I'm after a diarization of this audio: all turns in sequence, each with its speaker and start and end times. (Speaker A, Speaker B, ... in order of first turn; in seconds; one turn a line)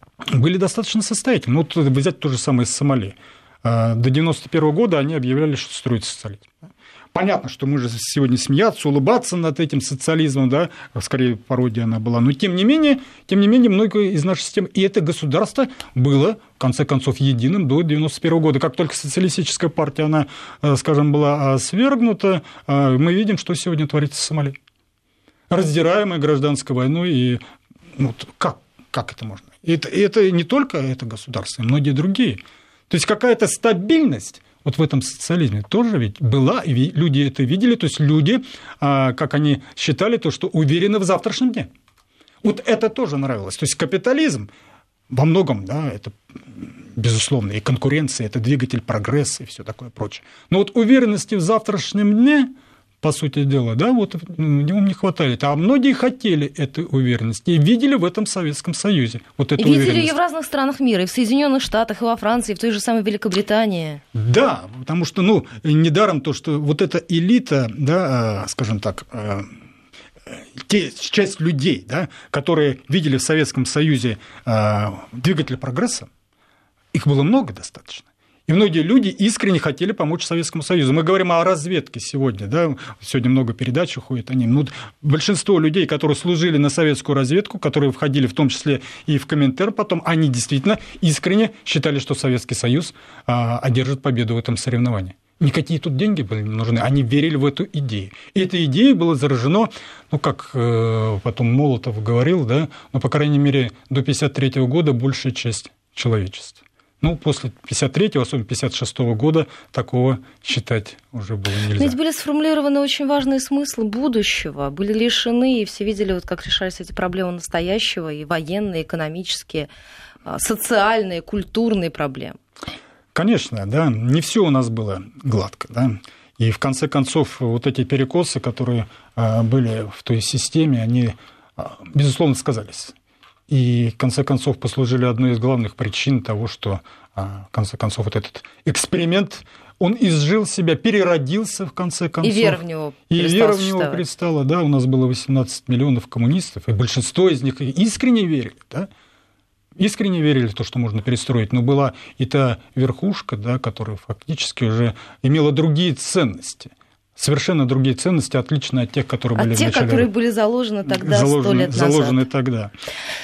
Speaker A: 0.3-24.6
Speaker A: 25.5-27.4
Speaker A: 27.9-41.7
Speaker A: 42.4-44.5
Speaker A: 45.1-52.5
Speaker A: 53.0-60.1
Speaker B: 59.6-64.0
Speaker A: 64.1-69.5
Speaker A: 70.3-76.1
Speaker A: 76.9-112.0
Speaker B: 111.8-119.7
Speaker B: 120.2-122.4
Speaker A: 123.1-132.9
Speaker A: 133.5-148.9
Speaker B: 142.2-144.0
Speaker A: 149.8-160.1
Speaker B: 159.3-162.2
Speaker A: 160.9-162.7